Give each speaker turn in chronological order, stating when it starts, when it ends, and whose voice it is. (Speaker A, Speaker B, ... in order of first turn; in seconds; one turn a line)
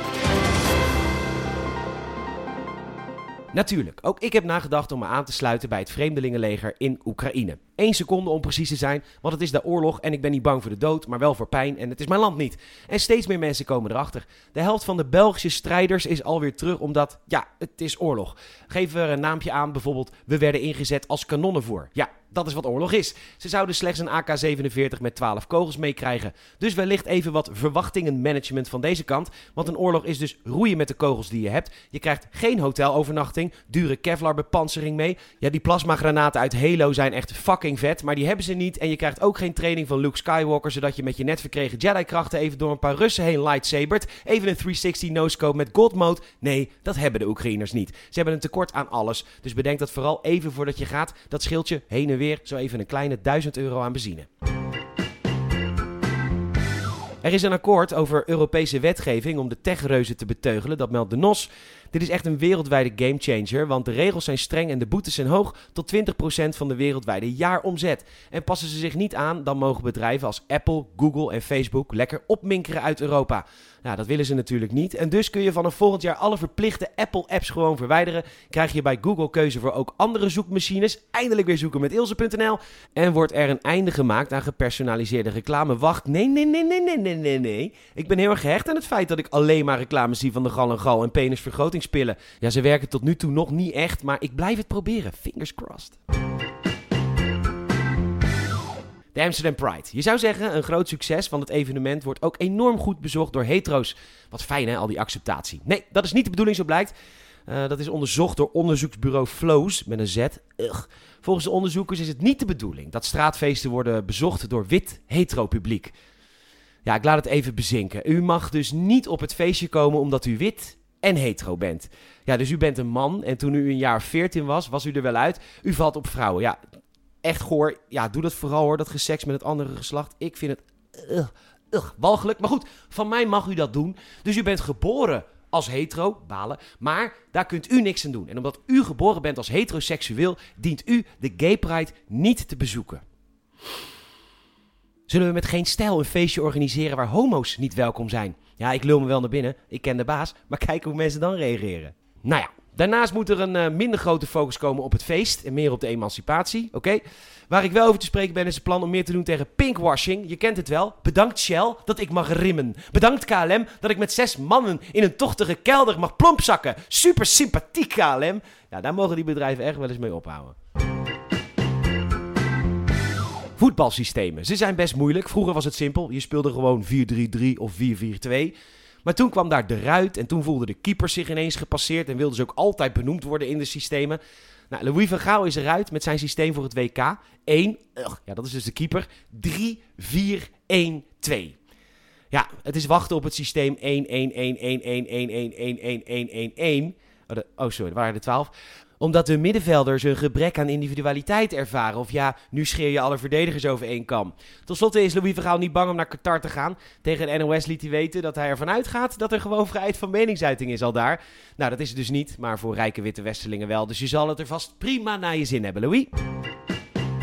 Speaker A: 3.5-54.3
Speaker A: 57.2-96.0
Speaker A: 99.1-106.9
Speaker A: 107.5-115.9
Speaker A: 116.8-126.6
Speaker A: 127.2-143.0
Speaker A: 145.1-170.6
Speaker A: 173.6-191.6
Speaker A: 192.3-216.1